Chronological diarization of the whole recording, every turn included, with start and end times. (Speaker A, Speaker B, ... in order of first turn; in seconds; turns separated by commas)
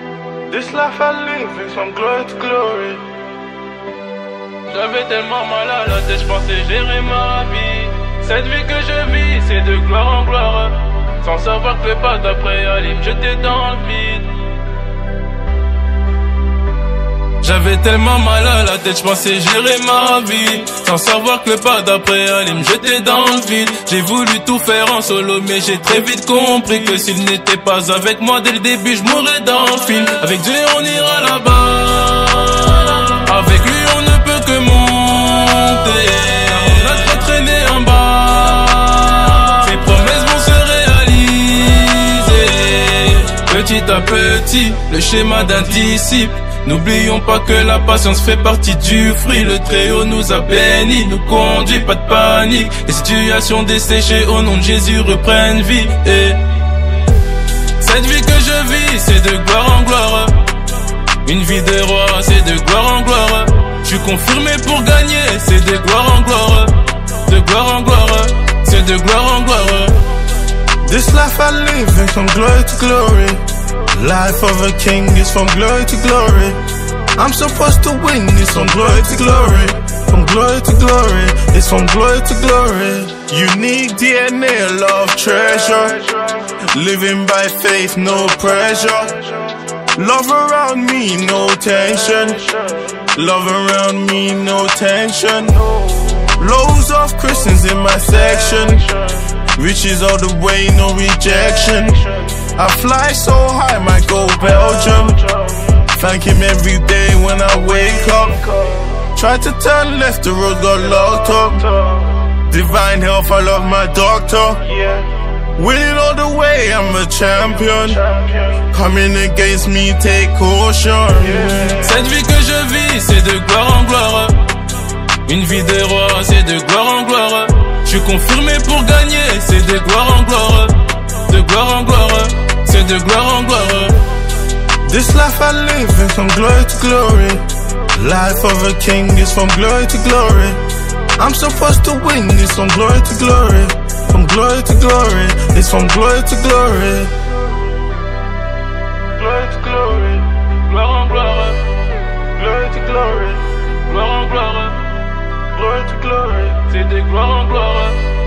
Speaker A: 0.5-3.0, Speaker B: 4.7-14.3, Speaker B: 17.4-56.4, Speaker B: 57.8-60.5, Speaker B: 61.2-70.0, Speaker A: 70.8-73.4, Speaker A: 73.9-76.6, Speaker A: 77.2-121.9, Speaker B: 121.7-124.5, Speaker B: 125.2-134.0, Speaker A: 134.8-140.6, Speaker A: 141.2-147.2, Speaker A: 149.2-150.3, Speaker B: 150.6-151.6, Speaker A: 152.3-153.5, Speaker B: 153.8-154.8, Speaker A: 155.5-156.6, Speaker B: 156.6-158.0